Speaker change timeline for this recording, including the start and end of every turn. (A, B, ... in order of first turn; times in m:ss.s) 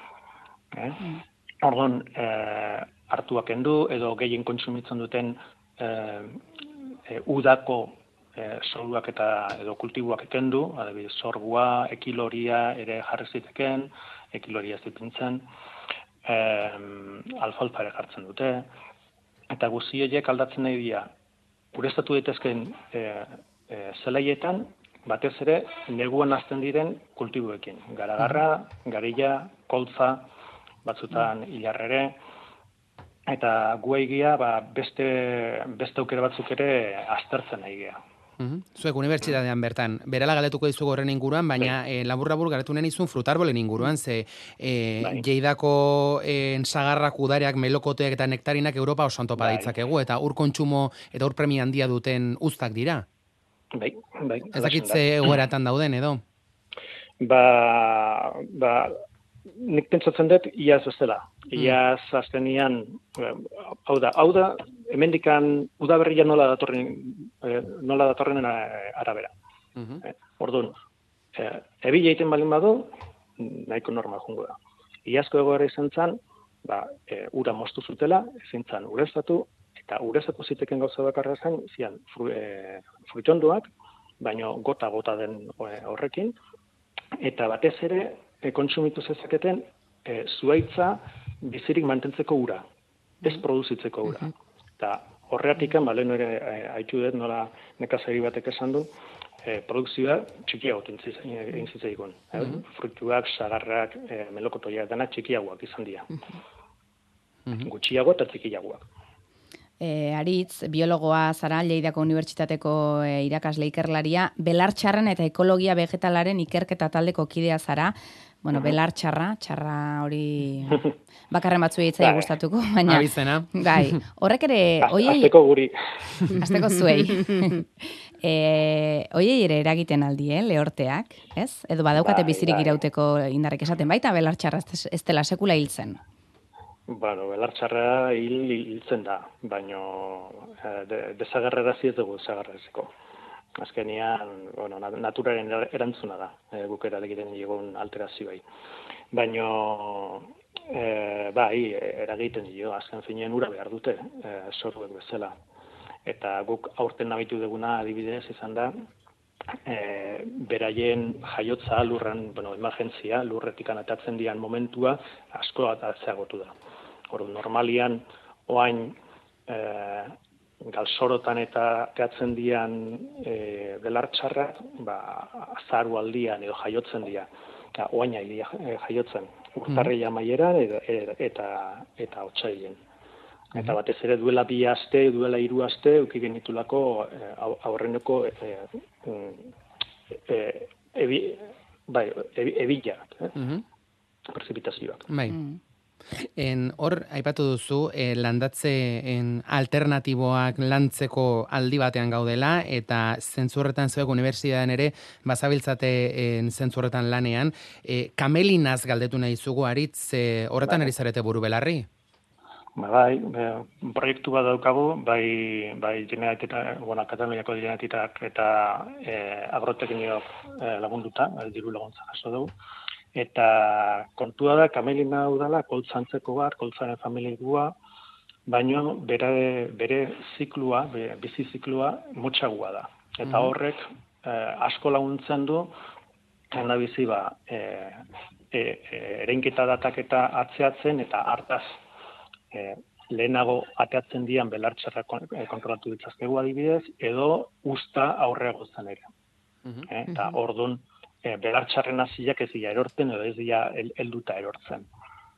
0:00.7-0:06.4 A
0:07.1-0:15.4 A
0:16.2-0:18.7 A
0:19.5-0:21.1 A
0:21.7-0:30.3 A
0:30.8-0:32.2 A
0:33.3-0:38.0 A
0:38.4-0:53.0 B
0:45.0-0:45.2 A
0:49.4-0:49.7 A
0:53.7-0:55.3 A
0:54.5-0:56.2 B
0:57.2-0:59.0 A
0:59.6-1:09.3 A
1:10.0-1:10.8 A
1:11.3-1:23.7 A
1:24.2-1:26.3 A
1:27.2-1:32.6 A
1:33.2-1:38.9 A
1:39.4-1:46.1 A
1:47.6-1:48.8 A
1:49.8-2:05.3 C
2:02.0-2:02.3 A
2:02.9-2:03.9 B
2:04.8-2:05.7 A
2:06.4-2:16.0 C
2:12.0-2:12.8 A
2:16.9-2:22.9 A
2:23.6-2:28.4 A
2:29.1-2:35.3 A
2:36.0-2:38.7 A
2:39.6-2:46.5 A
2:47.1-2:49.0 A
2:49.5-3:02.8 A
3:03.5-3:09.5 A
3:10.1-3:13.3 A
3:13.4-3:13.6 B
3:14.3-3:15.1 A
3:15.1-3:15.4 B
3:16.1-3:31.9 B
3:30.6-3:30.9 A
3:32.8-3:42.5 A
3:43.1-3:47.7 A
3:48.5-3:55.7 A
3:56.5-3:58.0 A
3:58.5-4:01.8 A
4:02.5-4:09.1 A
4:09.9-4:14.8 A